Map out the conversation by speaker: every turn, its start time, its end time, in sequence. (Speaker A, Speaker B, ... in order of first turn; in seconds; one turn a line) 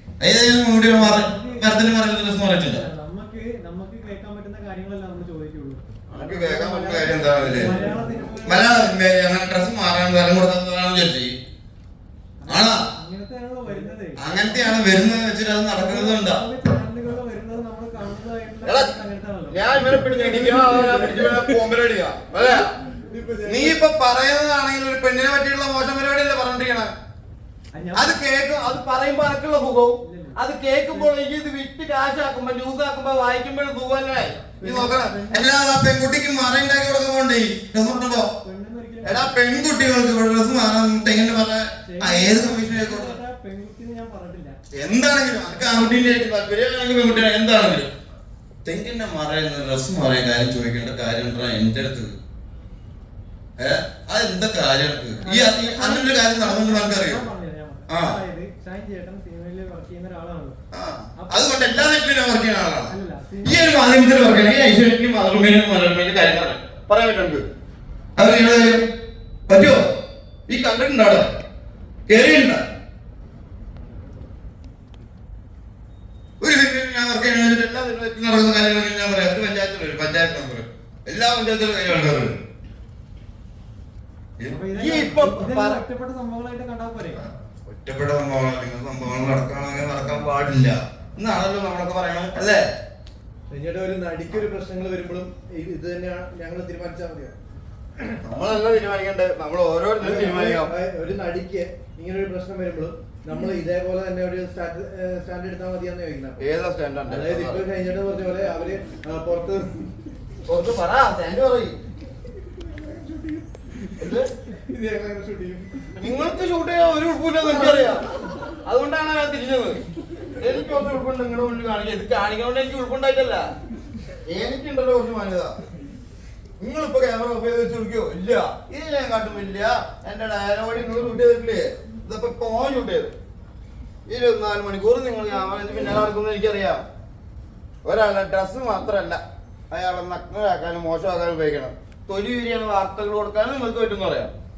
Speaker A: 0.2-2.8
Speaker B: 0.9-8.9
Speaker A: 6.1-7.7
Speaker C: 6.2-8.1
Speaker A: 8.4-11.3
Speaker B: 12.4-14.9
Speaker A: 12.5-12.8
Speaker A: 14.2-16.4
Speaker B: 15.8-21.4
Speaker A: 18.6-18.9
Speaker A: 19.5-22.7
Speaker C: 20.5-21.3
Speaker C: 23.1-23.8
Speaker A: 23.5-26.9
Speaker B: 27.8-28.2
Speaker A: 27.9-38.3
Speaker B: 30.0-31.1
Speaker B: 34.6-35.5
Speaker B: 38.4-39.4
Speaker A: 39.0-43.2
Speaker B: 41.9-44.6
Speaker A: 44.7-47.9
Speaker A: 48.6-52.2
Speaker A: 53.6-57.2
Speaker B: 55.2-60.6
Speaker A: 57.9-58.2
Speaker A: 60.7-62.9
Speaker B: 61.2-61.7
Speaker B: 62.9-63.8
Speaker A: 63.4-67.5
Speaker A: 68.2-68.9
Speaker A: 69.5-69.9
Speaker A: 70.5-71.3
Speaker A: 72.1-72.6
Speaker A: 76.4-82.4
Speaker A: 84.4-85.8
Speaker B: 84.5-87.2
Speaker A: 87.7-92.7
Speaker C: 93.5-97.4
Speaker A: 98.2-100.7
Speaker C: 100.0-106.4
Speaker A: 106.4-107.6
Speaker C: 107.1-109.6
Speaker A: 110.5-111.8
Speaker A: 114.0-114.3
Speaker C: 114.8-115.7
Speaker A: 116.0-118.0
Speaker A: 118.7-119.8
Speaker A: 120.4-123.5
Speaker A: 124.3-125.5
Speaker A: 126.6-133.1
Speaker A: 134.1-136.8
Speaker A: 137.8-144.3